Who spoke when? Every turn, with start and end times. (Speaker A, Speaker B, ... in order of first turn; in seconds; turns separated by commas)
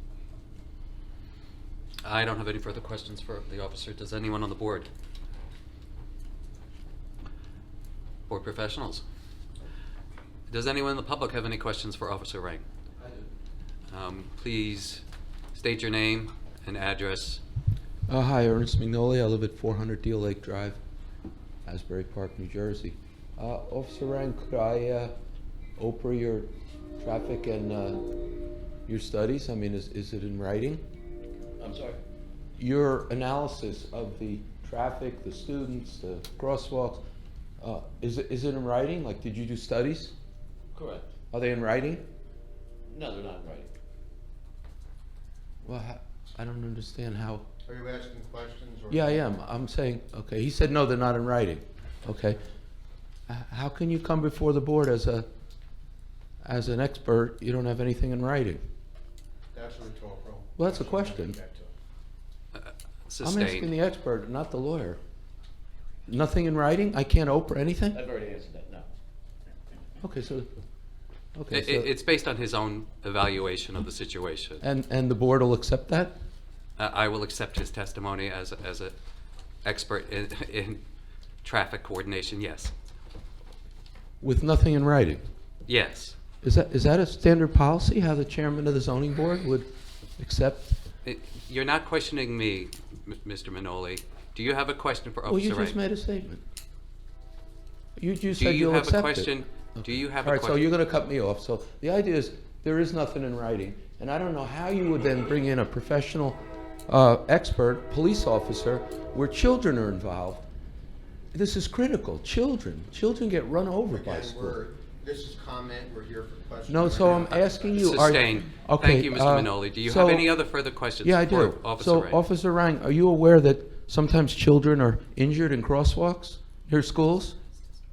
Speaker A: 2.0-4.9, Speaker A: 8.3-9.0, Speaker A: 10.5-12.6, Speaker A: 13.9-15.0, Speaker A: 15.5-17.4, Speaker B: 18.1-20.8, Speaker B: 21.7-25.1, Speaker B: 25.8-28.1, Speaker B: 28.9-30.8, Speaker C: 31.6-32.0, Speaker B: 32.6-37.0, Speaker B: 37.6-40.1, Speaker C: 40.7-41.1, Speaker B: 41.3-42.1, Speaker C: 42.9-43.7, Speaker B: 45.6-47.5, Speaker D: 47.6-49.3, Speaker B: 48.9-52.4, Speaker B: 53.3-55.3, Speaker B: 56.4-58.6, Speaker D: 59.5-61.7, Speaker B: 60.6-61.4, Speaker A: 62.5-63.7, Speaker B: 63.2-65.0, Speaker B: 66.1-68.0, Speaker C: 67.9-68.9, Speaker B: 70.0-70.5, Speaker B: 71.3-71.9, Speaker A: 71.5-74.6, Speaker B: 74.6-76.2, Speaker A: 76.8-78.9, Speaker A: 79.6-80.8, Speaker A: 81.4-82.7, Speaker B: 84.2-85.2, Speaker A: 85.7-86.2, Speaker B: 86.4-90.8, Speaker A: 91.0-95.8, Speaker B: 95.3-96.4, Speaker B: 98.0-110.5, Speaker A: 98.3-100.6, Speaker B: 111.3-114.6, Speaker D: 113.9-118.2, Speaker B: 116.7-120.4, Speaker A: 117.8-122.2, Speaker B: 121.0-127.4